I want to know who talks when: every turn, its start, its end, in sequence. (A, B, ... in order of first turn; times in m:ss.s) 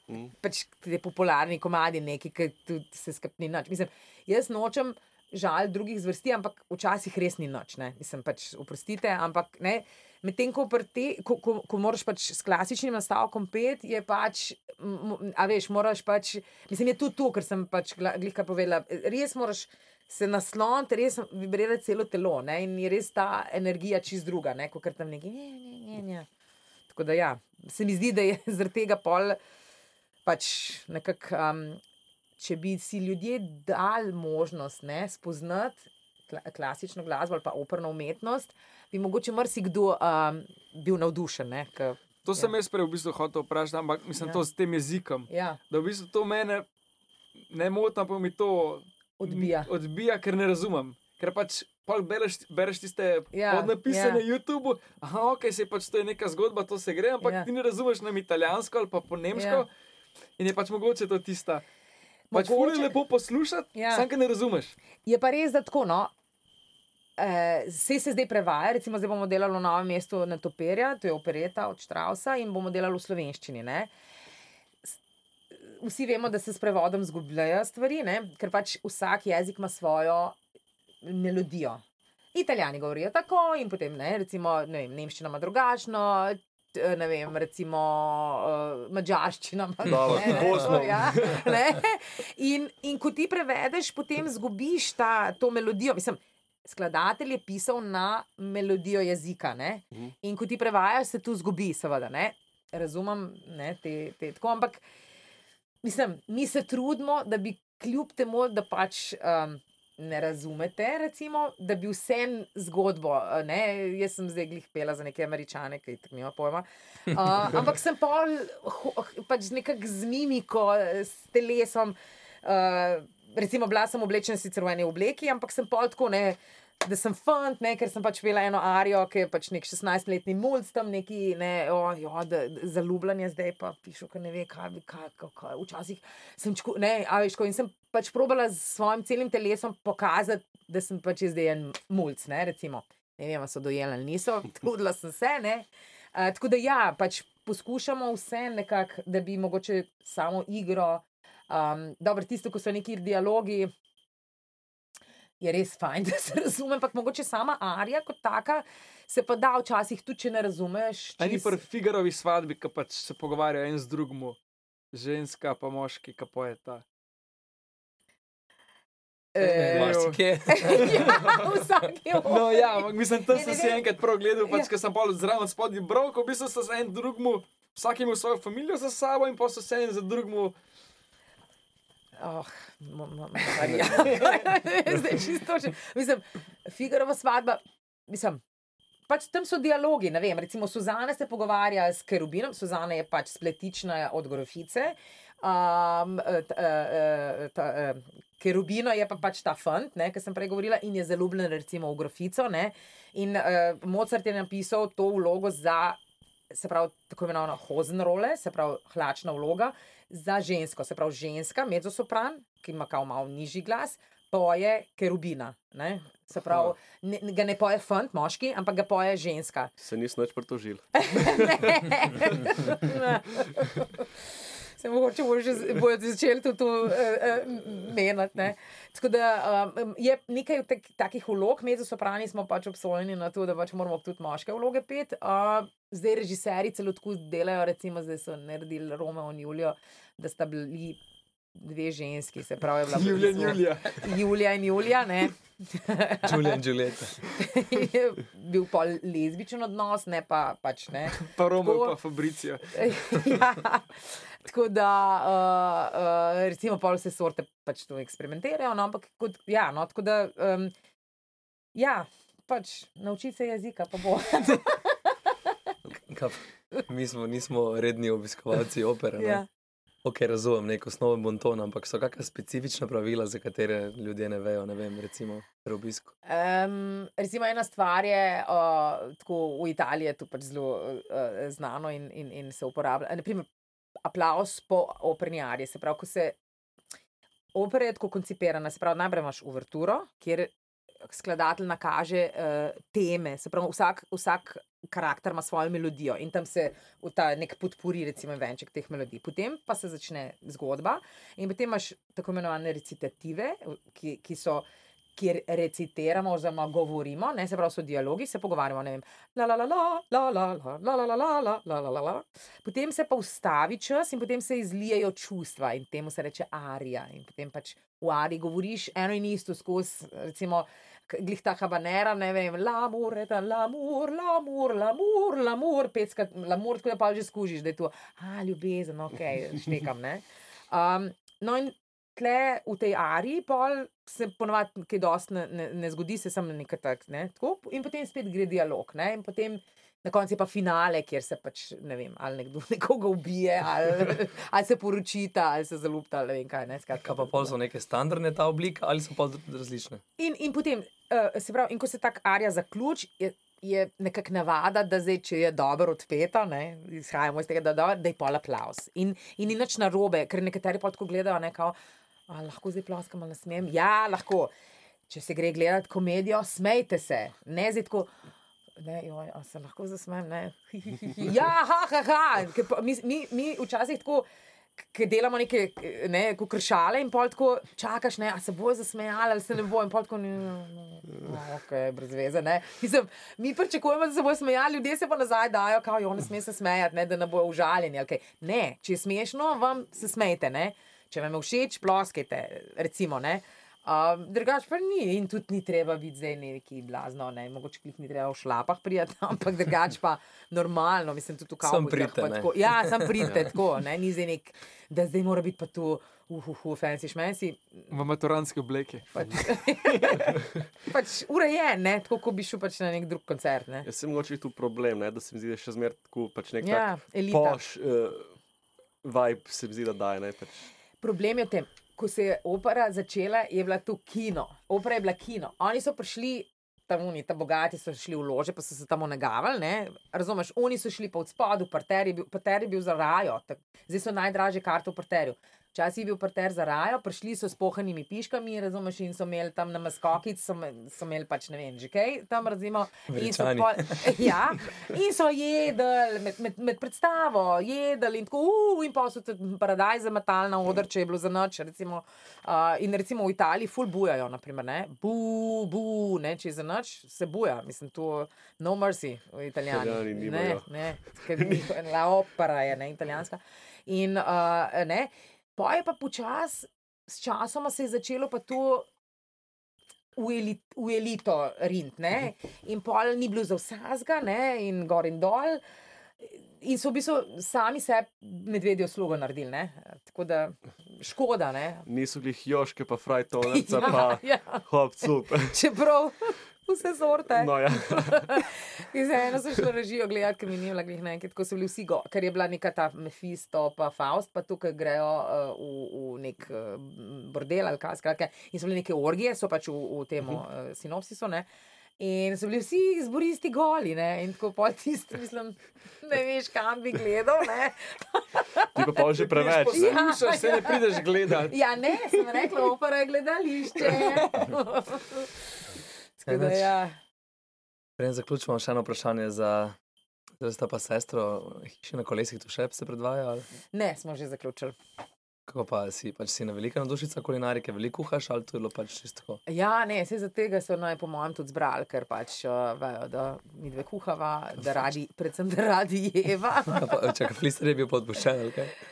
0:00.3-0:26.3 A
0:26.9-0:29.4 A
0:30.2-0:31.8 A
0:32.4-0:42.5 A
0:42.2-0:46.7 B
0:45.3-0:45.6 A
0:47.5-0:59.7 B
0:49.2-0:49.7 A
0:53.3-0:54.2 A
0:57.2-0:57.5 A
0:59.3-0:59.6 A
1:00.4-1:01.6 B
1:02.3-1:03.0 A
1:02.3-1:04.8 B
1:03.8-1:04.1 A
1:05.1-1:06.1 A
1:07.2-1:13.9 A
1:15.5-1:20.4 A
1:21.0-1:21.8 A
1:22.3-1:44.8 A
1:29.8-1:31.5 C
1:30.1-1:30.4 D
1:45.8-2:33.7 A
2:35.4-2:41.6 A
2:41.2-2:44.4 B
2:44.9-2:46.8 B
2:49.4-2:53.8 A
2:49.4-2:51.6 D
2:49.4-2:50.2 B
2:50.8-2:51.0 B
2:52.3-3:00.6 B
3:02.2-3:08.4 A
3:04.0-3:04.3 B
3:09.1-3:26.0 A
3:26.5-3:39.7 A
3:39.8-3:41.6 C
3:41.0-4:01.0 A
4:01.6-4:06.6 A
4:02.9-4:04.1 B
4:06.2-4:07.3 D
4:07.2-4:12.0 A
4:11.2-4:12.9 B
4:12.7-4:20.7 A
4:21.8-4:25.3 A
4:26.1-4:29.4 D
4:29.2-4:29.5 A
4:30.0-4:36.1 D
4:36.2-4:43.5 A
4:44.0-4:46.4 A
4:47.6-4:50.5 A
4:51.1-5:47.5 A
5:47.0-5:50.0 D
5:50.2-6:01.8 A
6:02.3-6:04.5 A
6:05.1-6:08.1 A
6:08.8-6:47.9 A
6:41.6-6:43.6 D
6:47.9-6:50.2 B
6:49.2-6:50.3 A
6:50.9-6:53.9 A
6:53.9-6:58.3 C
6:56.6-6:57.6 A
6:59.0-7:00.7 C
7:01.0-7:48.9 A
7:23.1-7:24.6 D
7:39.7-7:41.7 C
7:50.2-7:55.6 A
7:56.2-8:01.9 A
8:01.9-8:05.6 C
8:03.5-8:21.5 A
8:07.3-8:08.4 C
8:22.0-8:29.0 A
8:28.8-8:30.0 C
8:29.1-8:31.6 B
8:29.7-8:35.6 A
8:36.2-8:37.0 A
8:36.3-8:36.7 D
8:38.0-8:39.8 D
8:40.4-8:43.5 D
8:43.7-8:44.8 A
8:45.5-8:49.4 D
8:49.5-8:57.1 A
8:56.7-8:58.7 D